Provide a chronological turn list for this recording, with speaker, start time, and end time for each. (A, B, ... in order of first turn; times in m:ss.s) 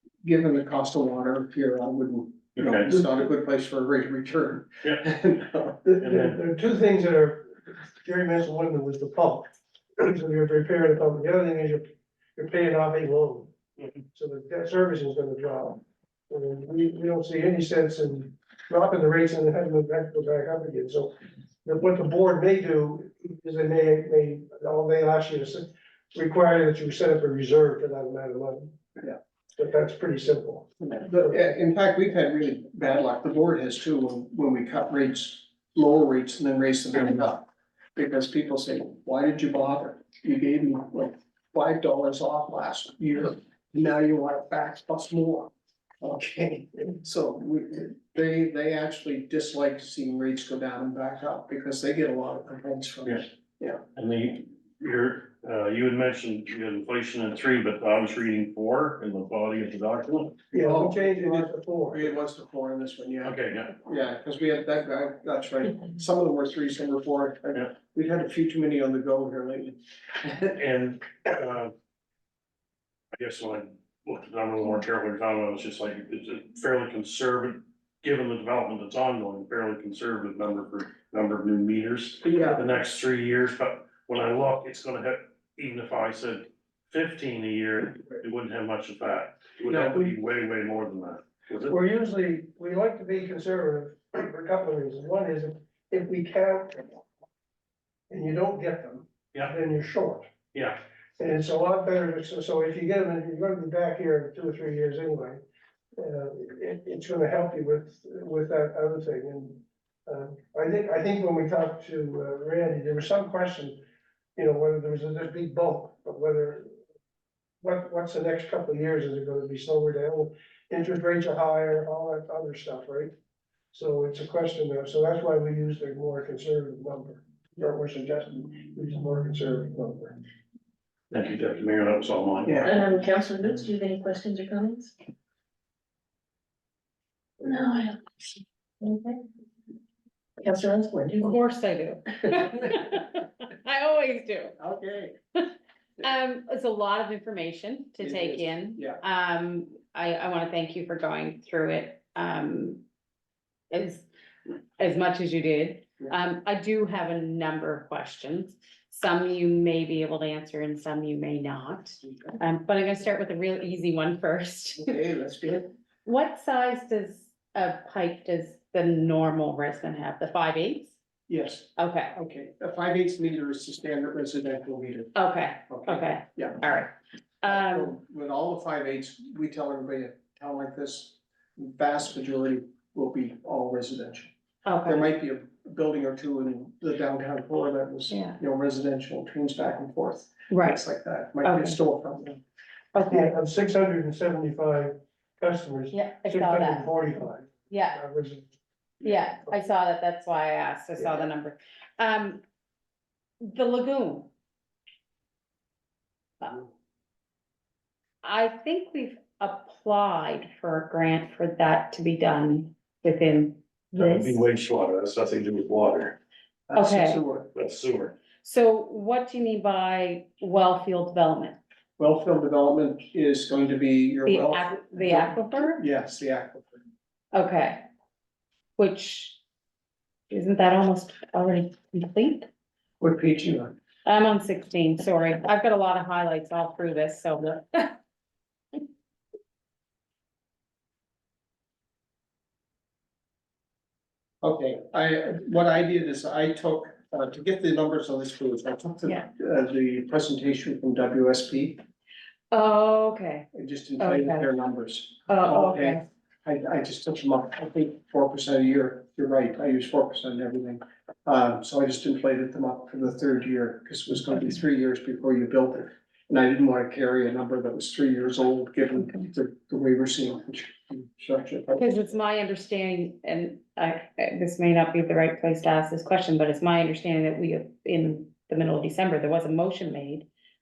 0:00.2-0:05.8 A
0:02.6-0:03.0 B
0:05.8-0:13.5 C
0:06.0-0:06.4 B
0:14.1-0:21.1 C
0:21.6-0:29.0 C
0:29.6-0:31.3 C
0:31.0-0:45.5 A
0:46.0-0:53.8 A
0:53.9-1:00.4 B
1:00.5-1:02.2 C
1:00.5-1:10.6 A
1:03.2-1:03.7 B
1:10.5-1:11.7 B
1:13.1-1:31.8 B
1:22.2-1:22.6 A
1:29.7-1:30.0 A
1:31.7-1:37.0 C
1:38.1-1:40.2 C
1:40.5-1:40.8 B
1:41.2-1:45.4 C
1:46.0-1:53.8 C
1:54.4-1:56.7 C
1:57.6-2:03.1 C
2:03.7-2:10.2 C
2:11.1-2:12.8 B
2:12.6-2:14.9 D
2:17.4-2:18.0 D
2:18.8-2:19.2 D
2:20.4-2:21.4 D
2:21.2-2:24.6 E
2:24.6-2:25.1 A
2:26.0-2:32.8 E
2:28.0-2:29.0 A
2:33.7-2:34.1 E
2:34.8-2:45.0 E
2:44.8-2:45.7 A
2:46.0-2:50.9 E
2:51.3-2:55.1 A
2:51.8-2:52.1 E
2:55.1-2:58.0 E
2:55.7-2:56.6 A
2:57.4-3:04.3 A
3:04.6-3:05.1 E
3:04.8-3:12.4 A
3:08.1-3:08.4 E
3:10.5-3:10.8 E
3:11.4-3:11.8 E
3:12.9-3:13.4 E
3:13.1-3:18.5 C
3:15.9-3:17.1 E
3:17.7-3:18.0 E
3:19.0-3:22.4 E
3:23.4-3:24.3 E
3:26.4-3:26.7 E
3:28.2-3:34.4 E
3:34.0-3:36.2 B
3:36.7-3:37.5 A
3:36.7-3:37.2 E
3:37.5-3:38.2 B
3:38.4-3:41.6 E
3:42.0-3:46.7 A
3:44.2-3:45.8 E
3:47.3-3:47.8 E
3:48.8-3:49.4 E
3:50.3-3:52.5 E
3:53.0-3:53.7 A
3:54.0-3:58.0 E
4:04.4-4:11.8 A
4:12.5-4:13.5 E
4:13.5-4:31.9 A
4:14.0-4:14.5 E
4:15.3-4:16.0 E
4:31.7-4:40.3 E